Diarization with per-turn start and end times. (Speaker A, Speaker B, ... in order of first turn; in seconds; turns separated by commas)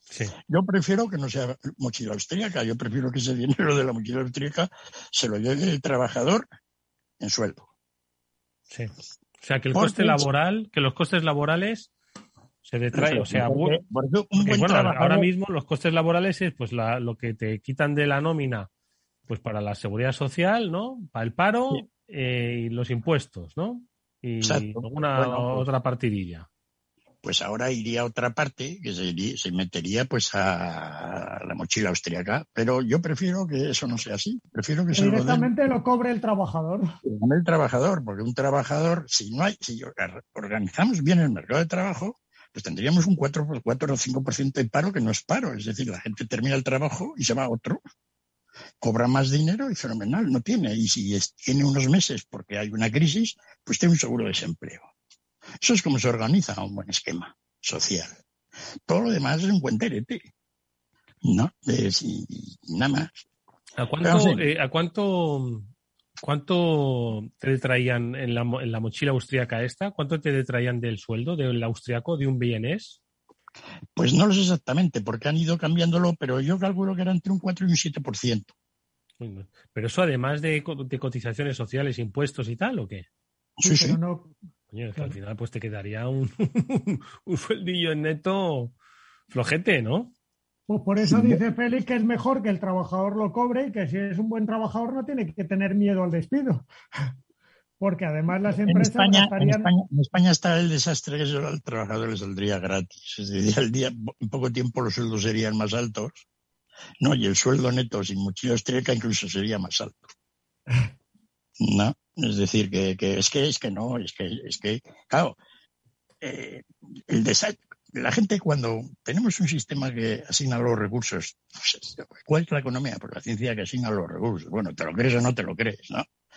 Speaker A: 0.1-0.3, Speaker B: 0.5-6.5, Speaker B: 7.2-7.7, Speaker A: 9.4-11.9, Speaker B: 9.7-10.3, Speaker A: 12.7-13.8, Speaker B: 12.9-15.3, Speaker A: 14.4-18.7, Speaker A: 19.3-26.5, Speaker B: 24.4-25.7, Speaker B: 27.2-35.5, Speaker C: 34.9-36.9, Speaker B: 37.0-47.8, Speaker B: 48.8-54.9, Speaker B: 55.6-58.2, Speaker B: 58.9-60.3, Speaker B: 61.2-63.2, Speaker A: 63.8-65.7, Speaker B: 64.0-64.4, Speaker A: 66.2-73.0, Speaker B: 74.0-78.5, Speaker A: 79.2-83.1, Speaker B: 83.6-84.0, Speaker C: 83.6-84.3, Speaker A: 84.7-88.7, Speaker A: 89.3-90.1, Speaker C: 90.7-96.7, Speaker B: 91.1-91.4, Speaker C: 97.8-99.7, Speaker B: 98.5-106.2, Speaker B: 107.0-110.1, Speaker B: 111.6-115.4, Speaker B: 116.2-126.1